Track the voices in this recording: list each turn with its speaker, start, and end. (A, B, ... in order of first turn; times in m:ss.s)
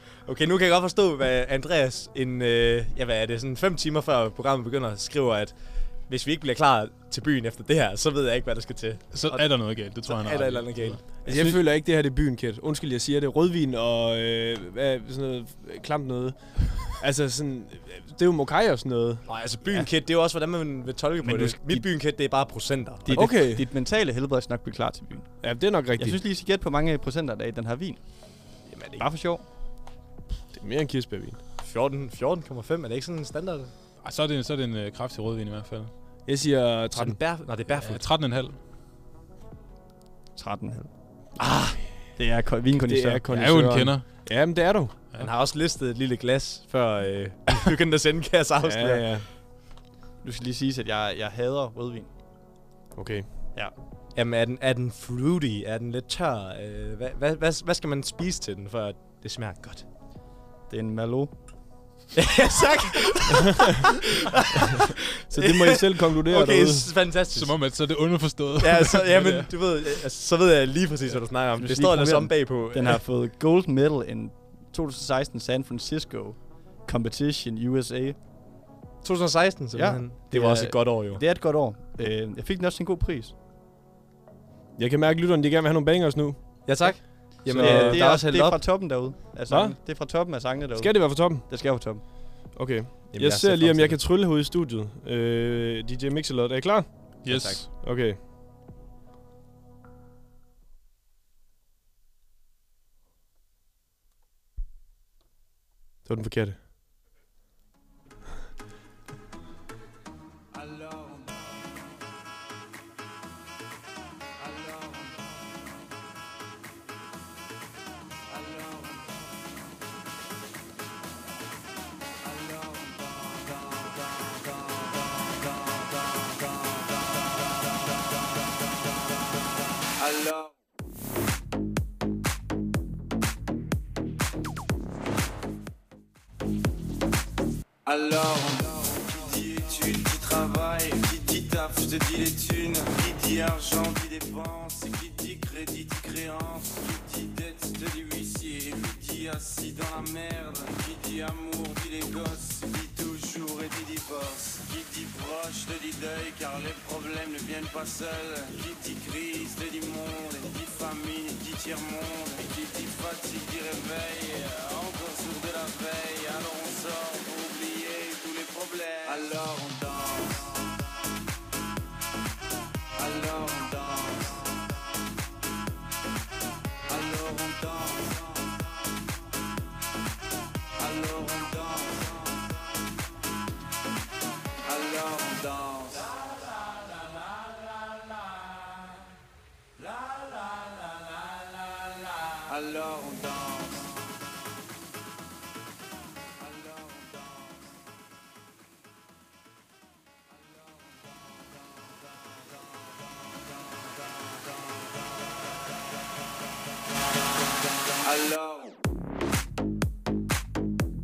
0:00.2-0:11.6 A
0:09.1-0:11.6 B
0:11.2-0:19.3 C
0:19.2-0:23.3 A
0:19.6-0:19.9 D
0:21.2-0:21.9 D
0:23.0-0:29.4 D
0:23.1-0:23.6 C
0:25.4-0:26.2 C
0:28.7-0:29.1 A
0:30.5-0:31.4 C
0:31.6-0:33.7 A
0:34.0-0:35.9 B
0:36.2-0:37.2 C
0:36.9-0:38.0 A
0:37.6-0:38.6 B
0:40.4-0:40.9 D
0:41.4-0:41.8 A
0:42.2-0:43.2 D
0:42.9-0:45.0 C
0:43.3-0:44.2 B
0:45.2-0:49.2 A
0:48.6-0:49.3 C
0:50.2-0:52.1 D
0:53.0-0:53.3 C
0:54.1-0:59.9 A
1:00.7-1:01.4 D
1:02.2-1:03.8 A
1:04.6-1:07.8 A
1:05.3-1:06.9 C
1:07.1-1:09.5 B
1:08.6-1:13.0 A
1:11.6-1:18.2 D
1:19.0-1:21.2 A
1:19.7-1:23.3 D
1:24.8-1:28.0 C
1:26.6-1:28.6 A
1:26.9-1:32.0 D
1:29.5-1:29.8 C
1:30.8-1:31.5 C
1:32.5-1:37.2 C
1:33.1-1:34.0 A
1:37.2-1:37.7 B
1:37.3-1:37.6 A
1:37.8-1:38.2 C
1:46.1-1:46.6 C
1:50.5-1:51.4 E
1:54.6-1:55.1 E
1:58.3-1:59.0 E
2:02.4-2:03.2 E
2:10.0-2:10.5 E
2:17.8-2:50.7 E
2:53.0-2:54.4 E
2:56.9-2:58.4 E
3:00.8-3:02.4 E
3:04.6-3:06.1 E
3:12.5-3:14.0 E
3:16.5-3:17.3 E
3:28.0-3:28.8 E